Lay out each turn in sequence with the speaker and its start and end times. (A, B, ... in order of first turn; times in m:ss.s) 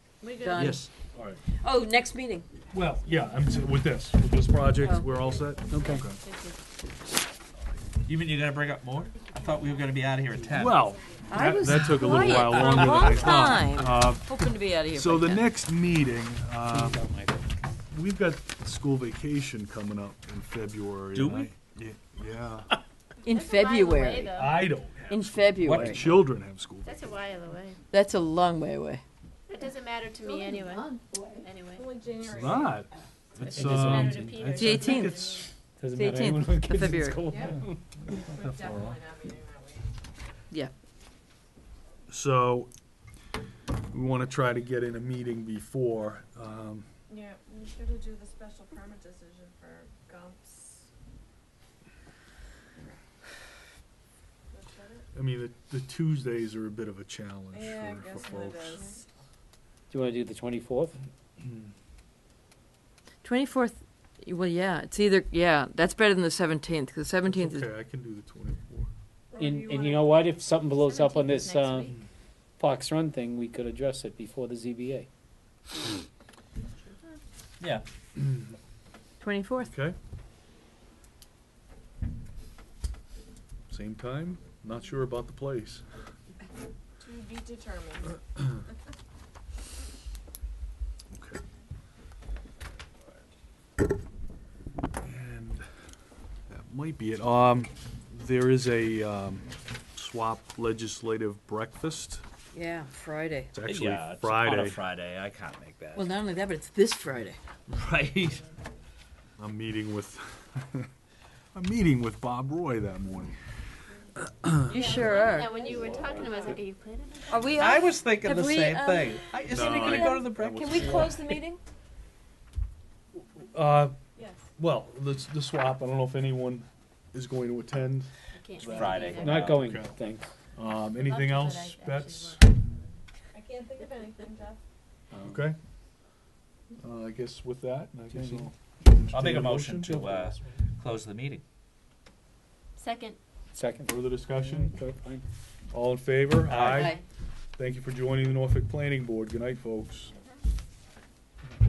0:00.2-0:00.7 A
0:00.4-0:00.9 B
0:00.6-0:00.8 C
0:00.6-0:01.4 D
0:01.6-0:02.4 B
0:02.7-0:06.2 D
0:04.8-0:05.1 B
0:05.2-0:06.6 A
0:05.7-0:06.0 E
0:08.0-0:10.8 C
0:09.2-0:09.8 A
0:10.5-0:17.0 D
0:11.3-0:15.5 B
0:12.5-0:13.1 C
0:16.7-0:17.5 E
0:17.9-0:22.7 D
0:21.1-0:21.5 C
0:23.2-0:24.4 B
0:23.2-0:24.7 A
0:24.3-0:27.0 D
0:25.1-0:26.0 B
0:25.6-0:26.2 C
0:26.8-0:27.8 A
0:27.9-0:29.0 B
0:29.5-0:32.2 A
0:30.4-0:31.4 B
0:31.8-0:32.8 F
0:32.2-0:32.9 D
0:33.4-0:33.9 C
0:33.4-0:35.5 A
0:33.5-0:35.3 D
0:33.5-0:34.4 E
0:34.5-0:35.3 B
0:35.8-0:37.8 E
0:35.9-0:37.3 B
0:38.3-0:39.0 D
0:38.3-0:39.8 F
0:42.1-0:42.7 D
0:43.9-0:46.9 D
0:47.1-0:50.8 F
0:54.5-0:55.0 F
0:55.1-0:58.8 D
0:57.5-0:58.8 F
0:59.9-1:00.9 E
1:01.4-1:01.7 D
1:03.2-1:07.7 B
1:07.2-1:08.9 D
1:09.4-1:11.9 E
1:09.5-1:10.1 F
1:10.8-1:11.6 A
1:11.5-1:11.9 B
1:12.6-1:15.1 E
1:19.2-1:19.7 B
1:19.6-1:20.0 D
1:23.7-1:25.8 D
1:27.0-1:28.0 F
1:31.1-1:31.4 D
1:35.0-1:35.6 D
1:36.5-1:42.2 D
1:42.5-1:43.5 B
1:43.5-1:44.8 D
1:43.6-1:46.1 C
1:45.9-1:47.4 B
1:47.7-1:48.4 C
1:49.4-1:50.9 D
1:51.5-1:53.3 D
1:54.7-1:55.6 B
1:54.7-1:57.7 A
1:57.3-2:01.6 B
1:57.6-2:01.2 C
1:59.4-2:01.2 D
2:03.2-2:04.0 D
2:04.6-2:10.0 D
2:08.3-2:09.5 A
2:08.6-2:09.7 C
2:09.2-2:10.3 E
2:10.6-2:12.4 D
2:10.9-2:13.0 A
2:13.3-2:14.6 F
2:15.1-2:15.4 E
2:15.2-2:15.6 D
2:16.8-2:20.3 D
2:19.1-2:21.4 C
2:20.0-2:20.3 E
2:22.8-2:23.2 A
2:23.5-2:25.2 E
2:23.8-2:24.7 D
2:25.7-2:26.9 D
2:26.4-2:26.9 C
2:26.7-2:27.0 B
2:27.6-2:30.1 D